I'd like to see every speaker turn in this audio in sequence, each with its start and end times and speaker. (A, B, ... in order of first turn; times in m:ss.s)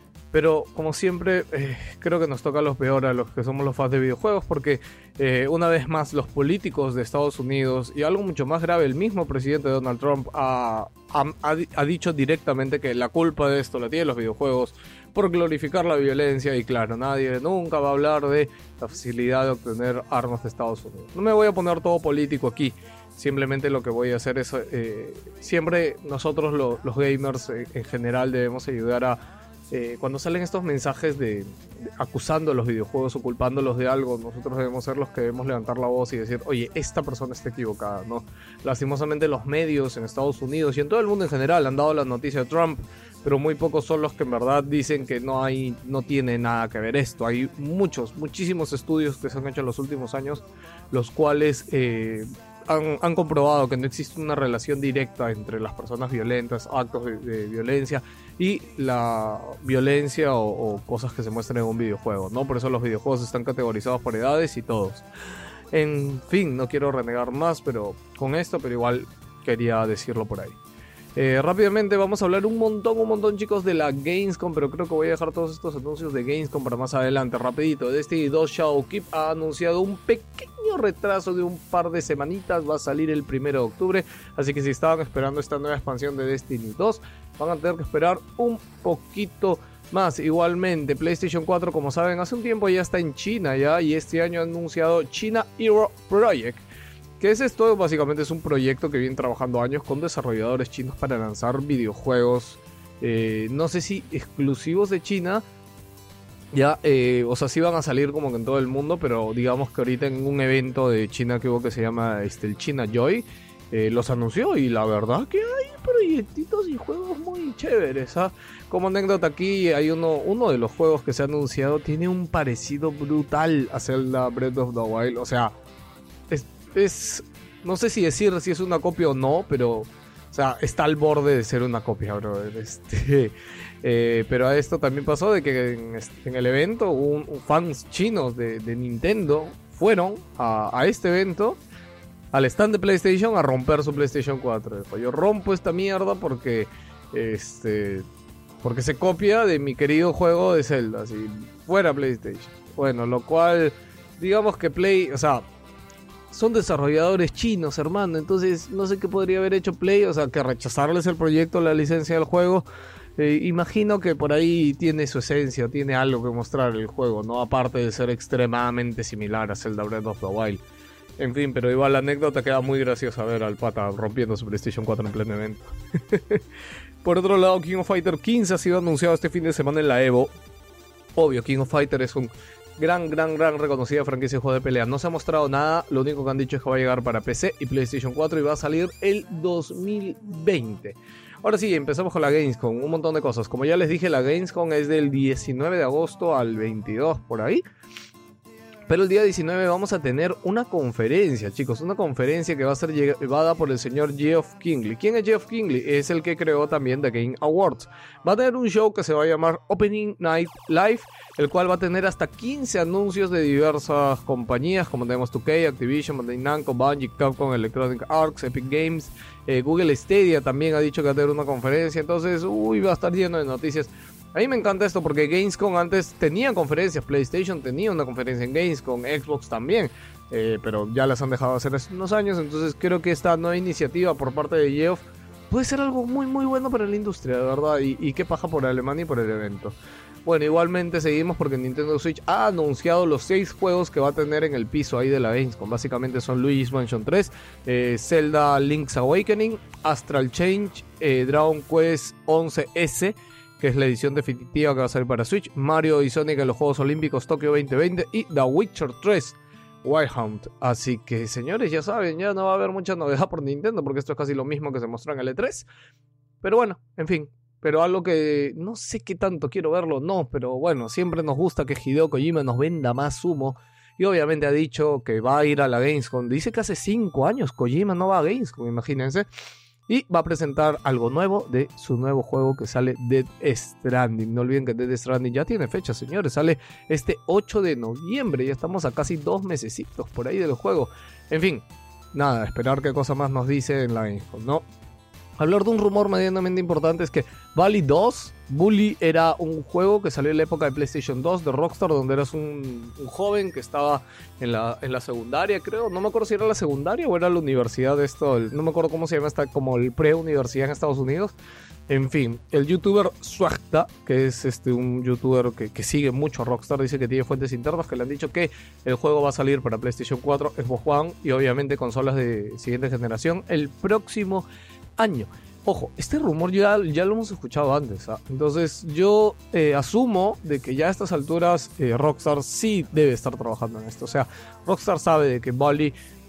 0:00.3-1:05.0 A
1:05.7-1:10.6 A
1:11.1-1:36.6 A
1:37.2-1:45.4 A
1:46.5-2:05.5 A
2:06.3-2:21.6 A
2:22.3-2:28.0 A
2:28.6-2:35.4 A
2:36.3-2:42.6 A
2:43.2-2:50.6 A
2:51.2-2:56.4 A
2:57.0-3:00.3 A
3:01.2-3:17.6 A
3:18.9-4:25.7 A
4:26.4-4:39.3 A
4:39.9-4:54.6 A
4:55.4-5:11.3 A
5:11.9-5:35.9 A